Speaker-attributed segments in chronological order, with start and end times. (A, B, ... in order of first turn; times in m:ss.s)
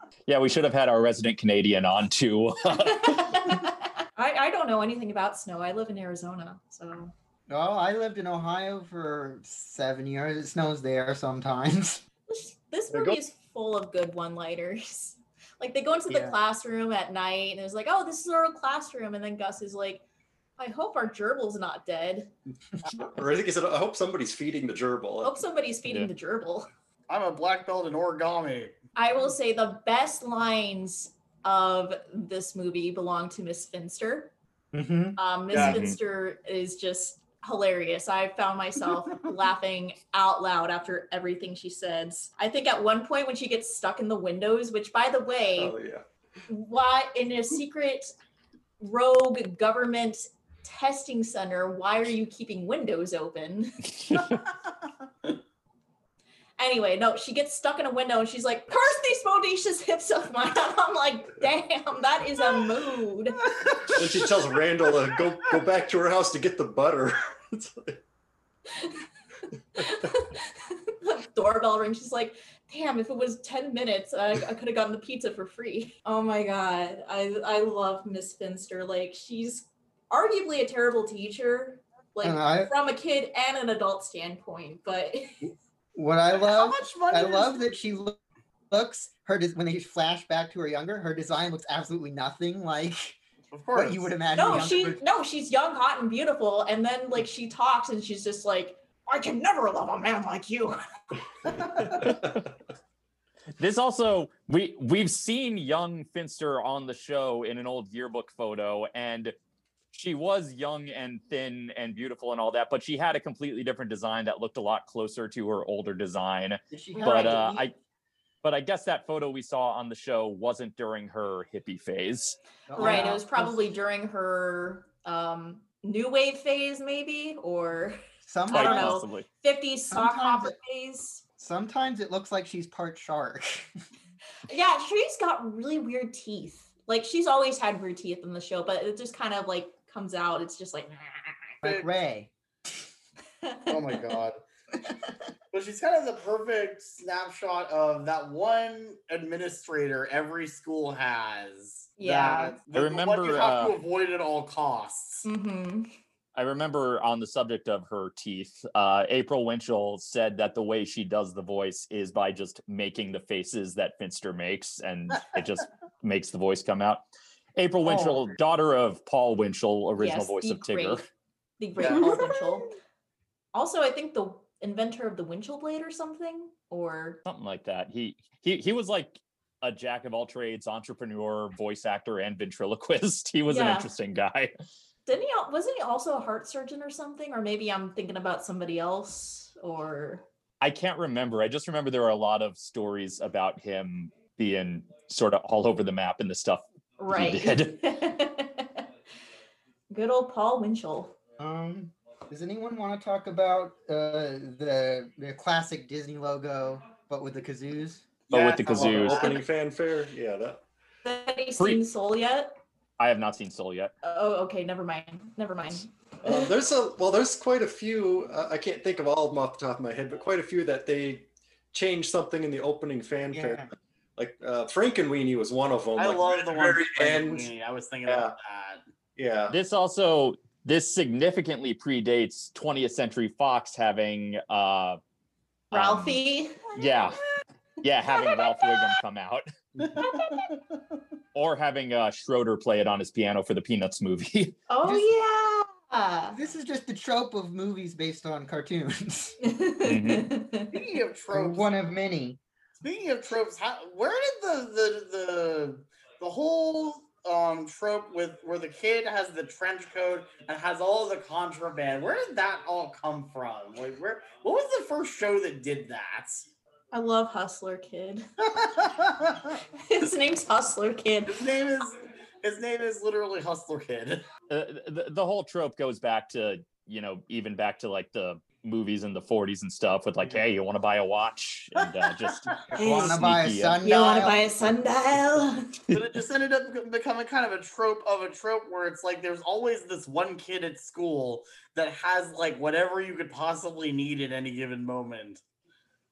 0:00.3-0:03.5 A
0:02.8-0:07.1 B
0:07.5-0:12.0 C
0:12.3-0:20.0 B
0:16.1-0:16.4 C
0:20.6-0:22.3 B
0:23.0-0:25.4 D
0:25.2-0:26.7 B
0:27.1-0:28.8 E
0:29.0-0:34.3 B
0:34.7-0:35.2 C
0:35.2-0:45.7 B
0:35.5-0:35.8 E
0:35.5-0:36.0 A
0:45.6-0:46.0 D
0:46.5-0:48.1 B
0:48.8-0:54.4 B
0:56.6-1:03.4 B
1:03.9-1:07.9 D
1:09.8-1:25.5 B
1:22.2-1:22.7 C
1:26.0-1:28.2 C
1:26.3-1:27.6 E
1:28.7-1:33.2 C
1:33.5-1:34.1 E
1:33.7-1:35.0 C
1:34.4-1:40.8 B
1:41.9-1:42.5 D
1:43.6-1:49.4 A
1:49.9-1:57.7 A
1:56.7-1:57.6 C
1:57.0-1:57.4 B
1:58.4-2:03.0 A
2:02.7-2:03.6 C
2:02.8-2:08.0 B
2:08.3-2:09.0 C
2:08.5-2:11.2 B
2:08.5-2:09.3 A
2:09.9-2:10.6 C
2:11.4-2:13.7 C
2:14.5-2:21.4 B
2:21.6-2:22.3 C
2:23.4-2:23.7 B
2:23.7-2:24.4 E
2:25.5-2:35.3 E
2:32.0-2:32.6 B
2:32.7-2:33.8 A
2:35.2-2:35.9 B
2:36.4-2:47.0 A
2:47.6-2:51.0 A
2:47.9-2:48.3 C
2:50.0-2:51.0 B
2:51.6-2:52.7 B
2:51.8-2:52.3 E
2:53.5-2:57.2 B
2:57.3-3:04.5 A
3:03.5-3:03.9 B
3:05.1-3:10.2 B
3:10.6-3:17.8 A
3:17.0-3:18.8 B
3:19.9-3:21.2 B
3:21.4-3:28.1 C
3:28.3-3:29.4 A
3:28.3-3:30.6 D
3:28.8-3:29.2 E
3:28.8-3:29.2 C
3:31.0-3:32.6 B
3:33.0-3:33.9 A
3:34.0-3:36.5 B
3:36.2-3:47.5 D
3:43.3-3:43.7 C
3:46.0-3:48.9 E
3:48.1-3:48.4 D
3:49.2-3:49.6 D
3:49.5-3:55.0 A
3:55.7-3:56.2 A
3:55.7-3:57.1 B
3:56.8-3:57.2 A
3:57.8-3:59.5 A
3:58.1-3:59.0 B
3:59.8-4:00.8 E
4:00.0-4:00.5 B
4:01.4-4:04.6 A
4:04.7-4:06.4 B
4:04.8-4:05.1 C
4:06.3-4:09.4 C
4:09.4-4:10.8 B
4:09.8-4:10.3 A
4:10.7-4:11.7 E
4:11.3-4:12.4 C
4:12.8-4:26.5 E
4:26.9-4:28.3 B
4:28.6-4:29.6 E
4:29.9-4:31.4 B
4:31.3-4:34.3 E
4:34.5-4:43.8 A
4:42.7-4:44.5 C
4:42.8-4:43.2 B
4:43.8-4:45.7 B
4:45.9-4:55.4 E